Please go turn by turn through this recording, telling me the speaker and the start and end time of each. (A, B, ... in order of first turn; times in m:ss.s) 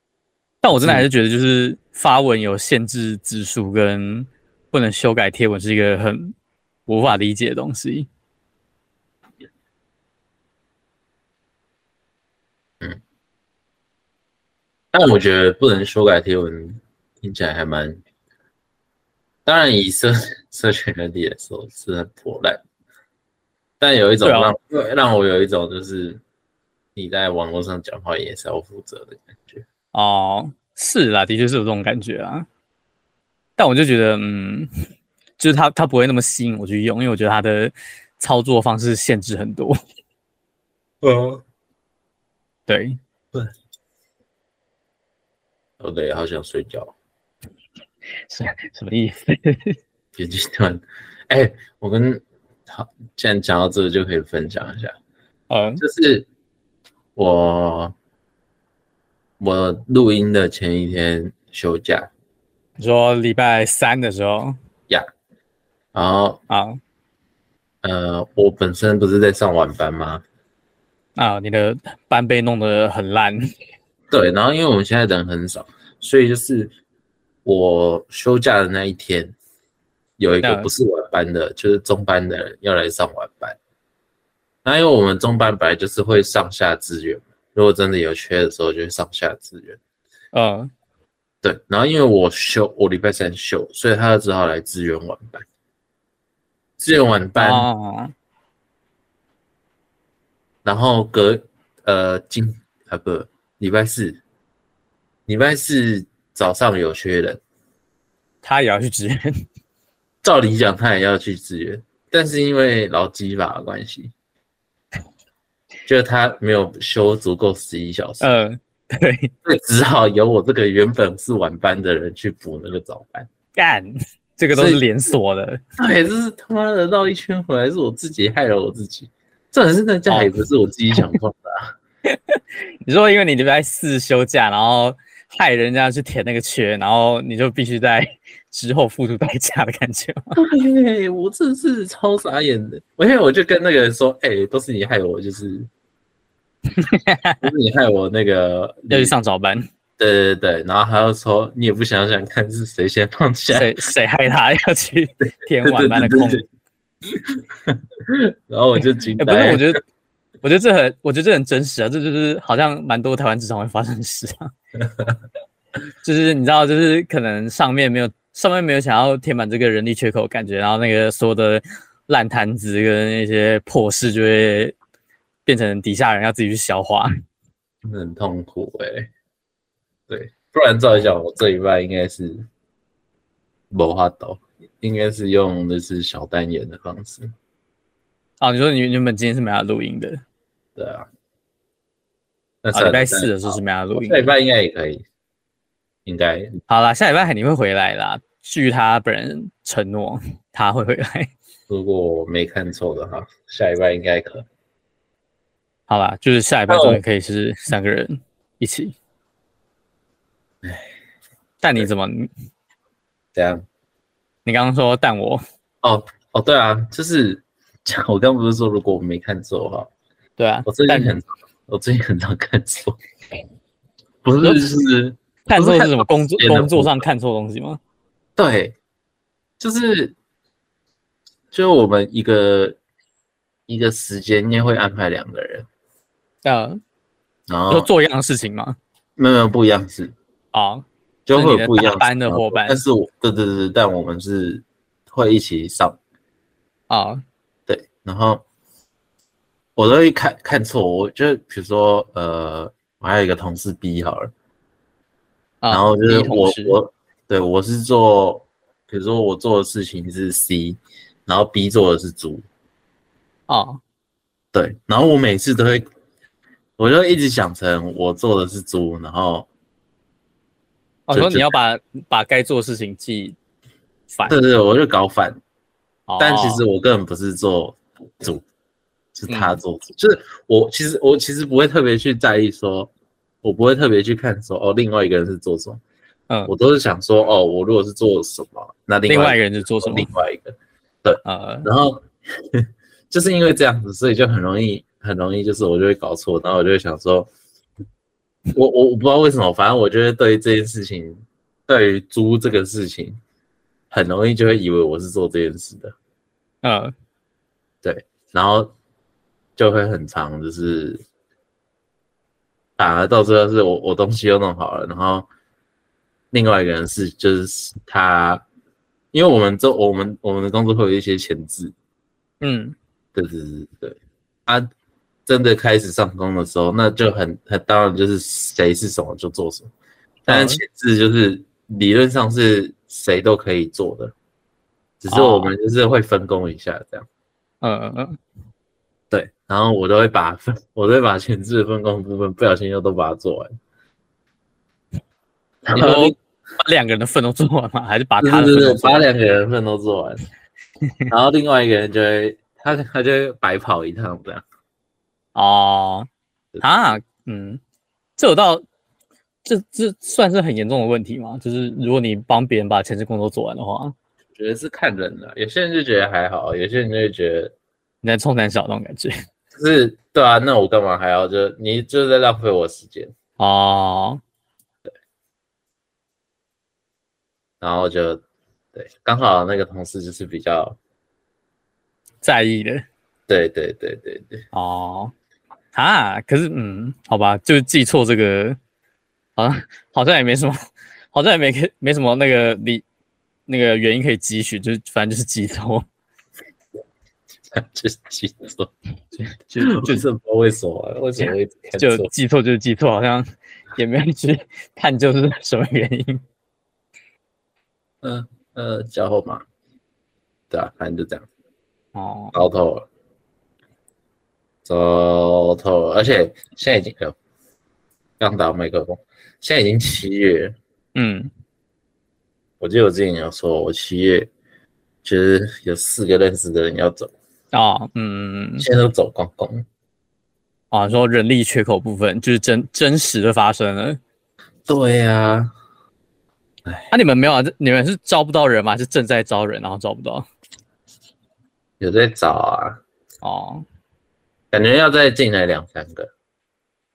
0:00.6-0:06.3 A
0:00.8-0:01.0 B
0:06.9-0:08.1 A
0:14.9-0:18.0 B
0:19.4-0:22.6 B
0:23.8-0:26.2 B
0:24.2-0:24.5 A
0:27.0-0:29.6 B
0:29.9-0:32.4 A
0:33.6-0:34.7 A
0:35.4-0:39.8 A
0:41.0-0:41.4 B
0:42.7-0:43.0 A
0:45.8-0:46.9 B
0:48.3-0:49.8 A
0:50.1-0:54.9 B
0:55.5-0:55.8 A
0:55.8-0:56.3 B
0:57.2-0:57.9 B
0:59.4-1:02.1 B
1:02.8-1:04.6 A
1:05.9-1:06.4 B
1:06.5-1:06.8 A
1:07.8-1:10.2 B
1:11.2-1:13.5 A
1:14.1-1:16.7 B
1:17.4-1:19.3 B
1:20.2-1:23.6 B
1:20.4-1:20.7 A
1:24.6-1:29.8 B
1:30.3-1:30.7 A
1:31.4-1:35.4 B
1:36.8-1:37.7 B
1:37.4-1:38.1 A
1:40.6-1:44.2 B
1:45.3-1:47.4 B
1:48.4-1:49.4 A
1:50.2-1:54.1 B
1:55.8-1:58.3 B
1:58.2-1:59.3 A
1:59.4-2:03.3 B
2:03.5-2:05.6 A
2:04.5-2:04.8 B
2:05.8-2:11.7 B
2:10.1-2:10.3 A
2:12.1-2:20.4 A
2:20.4-2:25.7 B
2:26.8-2:27.5 A
2:27.4-2:29.1 B
2:28.9-2:29.7 A
2:30.0-2:33.8 B
2:33.5-2:36.4 A
2:35.2-2:36.4 B
2:37.1-2:39.7 B
2:39.2-2:39.8 A
2:40.4-2:44.5 A
2:46.0-2:54.7 A
2:55.4-2:57.1 A
2:57.8-2:59.1 B
3:00.1-3:02.5 B
3:03.7-3:07.3 B
3:08.4-3:10.2 A
3:10.8-3:11.1 B
3:12.6-3:15.0 B
3:12.7-3:14.3 A
3:16.0-3:16.6 B
3:16.7-3:21.3 A
3:21.7-3:24.4 B
3:25.9-3:28.9 A
3:26.7-3:27.0 B
3:30.6-3:30.9 B
3:31.6-3:32.3 A
3:33.3-3:33.6 B
3:34.4-3:35.4 A
3:35.8-3:39.9 B
3:40.4-3:41.1 A
3:40.6-3:43.0 B
3:44.2-3:47.0 B
3:45.5-3:47.8 A
3:48.4-3:48.8 B
3:49.6-3:50.1 B
3:51.5-3:52.8 B
3:53.7-3:55.7 B
3:56.4-3:56.8 A
3:57.5-3:57.9 B
3:57.7-3:58.8 A
3:59.2-4:00.1 B
4:00.5-4:02.8 A
4:01.2-4:06.0 B
4:06.9-4:07.2 A
4:07.7-4:08.4 B
4:09.8-4:14.3 B
4:15.6-4:16.8 A
4:15.7-4:22.4 B
4:23.5-4:23.8 A
4:24.5-4:25.8 B
4:26.8-4:29.5 B
4:31.1-4:33.4 A
4:31.1-4:31.5 B
4:34.1-4:34.4 A
4:34.2-4:35.4 B
4:36.1-4:36.6 A
4:36.2-4:38.4 B
4:39.1-4:42.9 B
4:39.3-4:39.6 A
4:43.4-4:45.8 B
4:46.5-4:57.3 B
4:49.1-4:50.1 A
4:51.2-4:51.7 A
4:58.5-5:03.2 B
5:03.9-5:05.9 B
5:06.6-5:06.9 A
5:07.8-5:08.7 B
5:09.6-5:11.0 B
5:12.8-5:15.3 B
5:16.3-5:18.4 B
5:19.1-5:21.7 B
5:22.4-5:22.8 A
5:23.1-5:24.7 B
5:25.3-5:29.7 B
5:30.3-5:30.6 A
5:30.3-5:34.1 B
5:35.0-5:37.1 B
5:35.1-5:35.5 A
5:37.6-5:38.2 A
5:39.1-5:43.5 B
5:45.6-5:46.1 B
5:45.7-5:49.1 A
5:48.2-5:50.2 B
5:51.1-5:54.4 B
5:55.3-5:56.1 A
5:56.6-5:57.6 A
5:58.2-5:58.6 A
5:59.4-6:03.9 A
6:04.3-6:07.5 B
6:08.0-6:09.1 A
6:09.5-6:13.1 B
6:13.4-6:14.2 A
6:17.6-6:18.2 B
6:18.7-6:20.8 B
6:22.2-6:22.8 A
6:23.3-6:24.4 B
6:24.5-6:25.1 A
6:25.7-6:28.6 A
6:29.4-6:30.6 A
6:31.1-6:32.8 A
6:33.5-6:35.8 A
6:37.5-6:38.7 B
6:39.2-6:40.0 A
6:39.6-6:42.1 B
6:41.8-6:46.2 A
6:48.0-6:49.4 B
6:50.5-6:51.2 B
6:51.9-6:52.4 A
6:52.3-6:52.8 B
6:54.6-6:57.2 B
6:58.2-7:00.5 B
7:00.9-7:01.3 A
7:02.6-7:04.3 B
7:05.0-7:07.1 B
7:07.5-7:08.7 A
7:08.6-7:09.6 B
7:10.7-7:14.0 A
7:14.6-7:15.5 B
7:16.9-7:20.3 A
7:21.8-7:22.8 B
7:23.2-7:23.6 A
7:24.5-7:26.1 B